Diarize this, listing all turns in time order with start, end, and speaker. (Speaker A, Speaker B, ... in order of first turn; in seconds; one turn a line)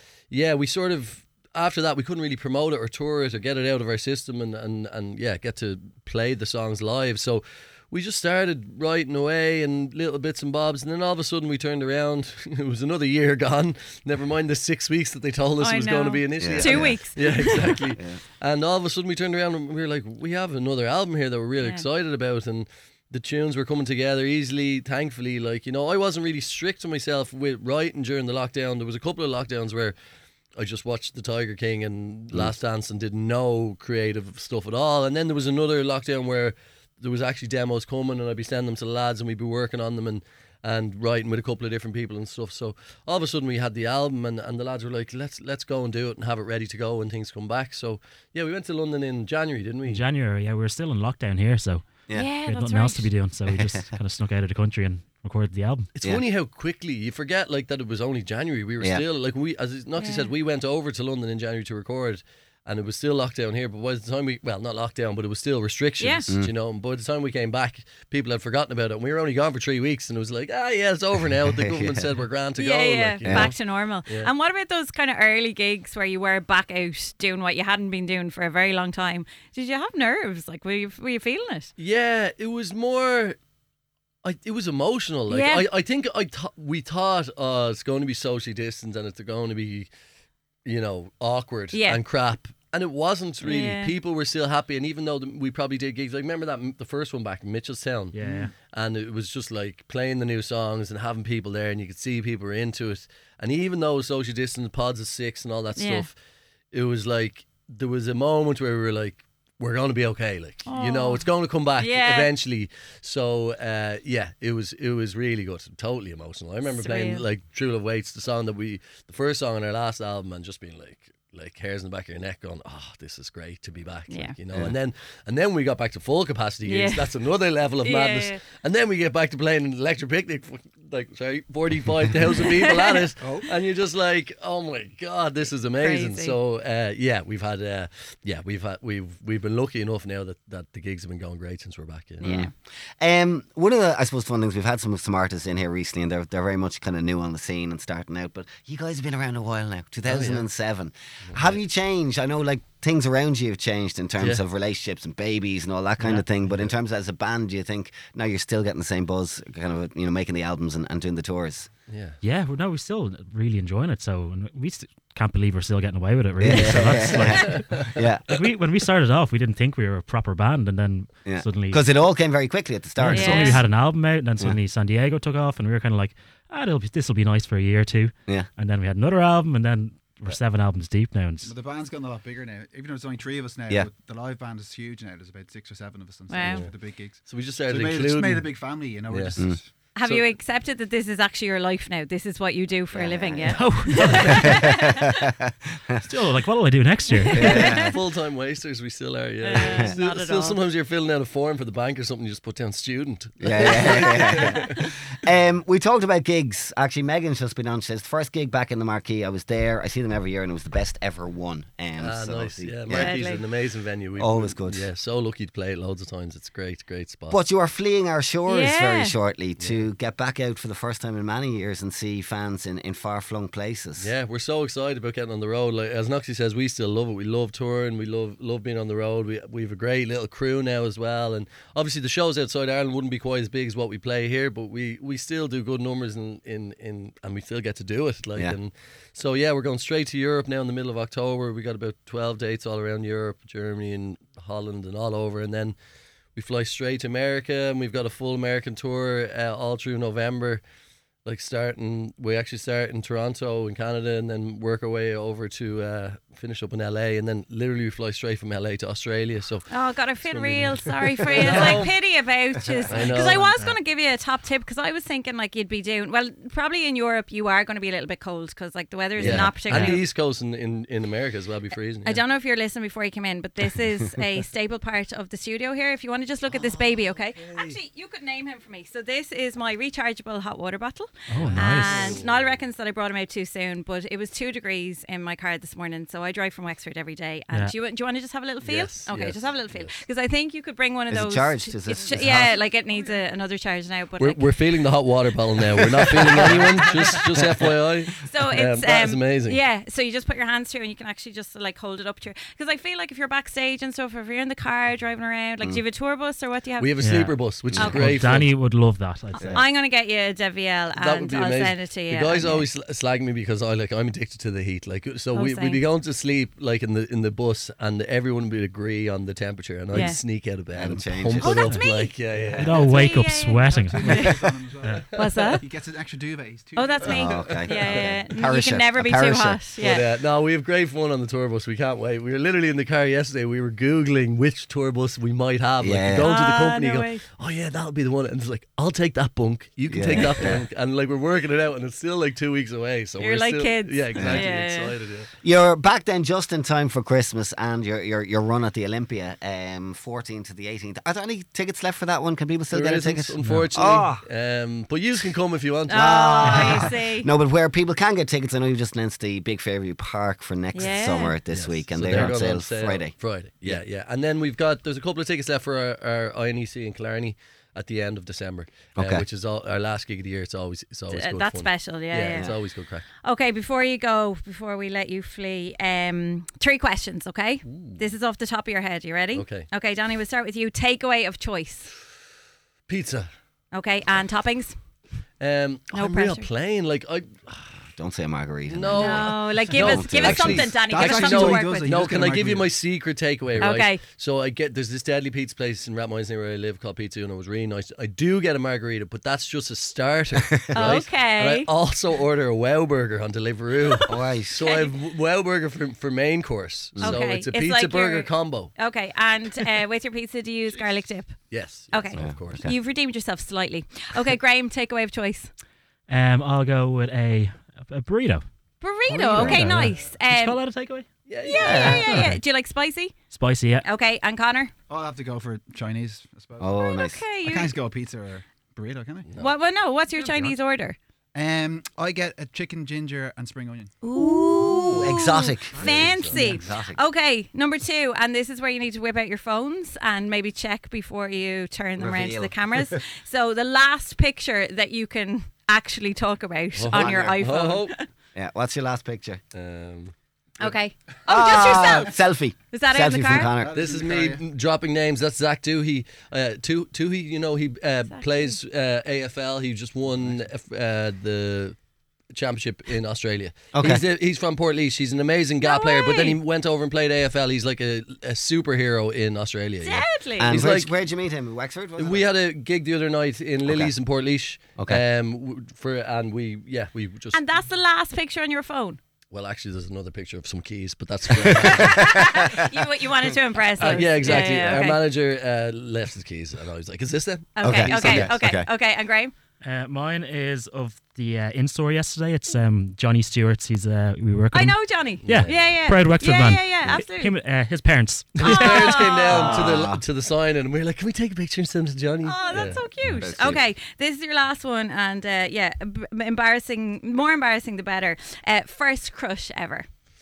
Speaker A: 0.3-29.9
Speaker B: 15.6-17.9
Speaker C: 16.4-18.2
Speaker B: 21.6-21.8
Speaker A: 30.6-50.0
Speaker D: 49.9-51.9
Speaker B: 52.1-53.1
Speaker D: 52.4-55.9
Speaker C: 53.5-53.9
Speaker A: 55.9-74.3
Speaker B: 60.0-60.3
Speaker B: 66.0-66.3
Speaker C: 71.5-72.1
Speaker B: 72.6-81.7
Speaker C: 73.2-73.5
Speaker A: 81.8-83.3
Speaker A: 84.2-89.9
Speaker B: 85.3-85.6
Speaker A: 90.6-98.2
Speaker B: 91.7-92.0
Speaker B: 93.4-93.9
Speaker D: 98.1-98.5
Speaker A: 98.7-106.1
Speaker B: 105.8-106.1
Speaker A: 106.7-142.3
Speaker B: 110.6-111.2
Speaker B: 111.8-112.3
Speaker B: 116.6-117.2
Speaker B: 124.1-124.3
Speaker B: 126.6-127.1
Speaker B: 127.8-128.4
Speaker B: 132.4-133.0
Speaker E: 133.2-133.4
Speaker B: 135.7-136.4
Speaker B: 142.2-142.5
Speaker C: 142.2-161.7
Speaker A: 150.1-150.4
Speaker A: 151.2-151.6
Speaker A: 161.9-162.2
Speaker D: 162.2-171.8
Speaker C: 166.4-168.2
Speaker C: 171.2-173.6
Speaker D: 173.0-181.5
Speaker B: 173.1-173.6
Speaker E: 181.4-189.7
Speaker B: 186.3-186.7
Speaker A: 187.2-188.5
Speaker A: 189.1-189.4
Speaker B: 189.9-195.0
Speaker A: 190.0-190.3
Speaker C: 192.9-194.6
Speaker D: 193.5-194.7
Speaker D: 196.0-197.6
Speaker B: 197.2-197.9
Speaker C: 197.3-197.9
Speaker A: 197.5-204.8
Speaker B: 199.4-200.6
Speaker C: 199.5-199.9
Speaker C: 203.4-213.3
Speaker B: 203.6-204.8
Speaker A: 212.0-217.4
Speaker B: 212.9-213.4
Speaker C: 214.2-214.9
Speaker C: 217.3-224.1
Speaker B: 218.5-219.1
Speaker A: 219.6-219.8
Speaker A: 224.0-245.7
Speaker A: 246.3-250.6
Speaker A: 251.2-259.7
Speaker B: 259.7-270.1
Speaker A: 260.2-261.9
Speaker C: 261.4-261.6
Speaker A: 262.9-263.5
Speaker D: 263.2-263.8
Speaker A: 269.2-272.2
Speaker C: 269.2-270.0
Speaker B: 272.0-294.4
Speaker A: 277.4-277.8
Speaker D: 281.3-282.1
Speaker A: 281.4-282.6
Speaker A: 288.6-290.0
Speaker C: 291.1-292.5
Speaker A: 292.1-292.6
Speaker A: 294.2-299.6
Speaker C: 296.2-296.6
Speaker B: 298.2-306.9
Speaker A: 306.8-308.5
Speaker D: 307.0-309.6
Speaker C: 307.7-308.2
Speaker B: 307.8-308.1
Speaker C: 309.4-309.6
Speaker B: 309.4-312.6
Speaker A: 310.9-322.9
Speaker B: 315.3-315.8
Speaker B: 319.9-320.2
Speaker C: 320.7-321.8
Speaker B: 321.4-324.3
Speaker D: 322.6-325.1
Speaker E: 323.6-327.4
Speaker B: 325.1-325.6
Speaker B: 326.8-330.1
Speaker C: 327.1-329.6
Speaker A: 327.1-328.1
Speaker A: 329.8-345.3
Speaker C: 335.8-336.3
Speaker B: 336.2-337.2
Speaker C: 339.9-340.6
Speaker B: 343.2-344.9
Speaker C: 344.1-344.5
Speaker C: 345.4-354.2
Speaker A: 352.7-356.8
Speaker D: 353.4-353.7
Speaker B: 355.9-357.3
Speaker C: 355.9-363.8
Speaker D: 356.4-356.9
Speaker B: 360.7-361.4
Speaker A: 361.5-373.1
Speaker C: 369.0-369.2
Speaker B: 371.1-372.6
Speaker B: 373.2-381.9
Speaker A: 377.6-378.1
Speaker A: 379.3-379.7
Speaker A: 382.9-383.3
Speaker B: 383.7-384.7
Speaker A: 385.4-387.8
Speaker B: 385.9-386.5
Speaker C: 387.9-390.6
Speaker A: 388.7-408.7
Speaker B: 388.9-391.9
Speaker E: 389.9-392.7
Speaker B: 393.6-394.0
Speaker C: 400.5-401.0
Speaker B: 400.7-401.7
Speaker C: 404.1-404.7
Speaker B: 404.6-404.9
Speaker B: 407.0-411.4
Speaker A: 411.5-412.7
Speaker B: 411.9-415.5
Speaker C: 412.1-412.7
Speaker D: 416.1-418.4
Speaker B: 418.8-420.6
Speaker D: 419.1-421.1
Speaker C: 419.3-419.7
Speaker A: 421.3-422.1
Speaker B: 421.4-423.1
Speaker C: 421.5-422.2
Speaker D: 421.6-422.4
Speaker D: 423.3-423.8
Speaker B: 423.8-424.7
Speaker E: 424.9-426.7
Speaker C: 426.6-427.2
Speaker B: 426.8-427.7
Speaker E: 427.4-429.3
Speaker A: 429.3-429.5
Speaker B: 429.4-431.0
Speaker E: 431.3-433.9
Speaker B: 434.0-448.0
Speaker C: 434.1-437.0
Speaker A: 435.8-436.5
Speaker C: 442.0-443.0
Speaker A: 446.7-447.9
Speaker C: 446.9-447.4
Speaker C: 448.3-449.4
Speaker A: 449.5-450.1
Speaker B: 450.6-452.1
Speaker C: 451.2-453.7
Speaker B: 452.7-453.5
Speaker E: 453.5-454.4
Speaker A: 453.7-461.8
Speaker B: 458.1-458.6
Speaker A: 462.3-470.9
Speaker C: 463.7-464.0
Speaker B: 465.6-466.4
Speaker B: 469.8-470.6
Speaker C: 470.4-472.2
Speaker A: 472.0-477.4
Speaker C: 473.6-473.9
Speaker C: 474.8-475.0
Speaker B: 477.3-479.0
Speaker A: 479.3-482.1
Speaker C: 481.4-482.5
Speaker B: 481.6-485.0
Speaker A: 483.8-488.3
Speaker C: 483.8-484.9
Speaker B: 487.6-489.3
Speaker C: 487.6-488.7
Speaker D: 489.6-498.9
Speaker B: 494.5-497.3
Speaker A: 495.2-495.8
Speaker A: 498.4-502.8
Speaker B: 498.4-499.6
Speaker C: 499.2-500.0
Speaker B: 502.2-509.8
Speaker C: 503.1-503.6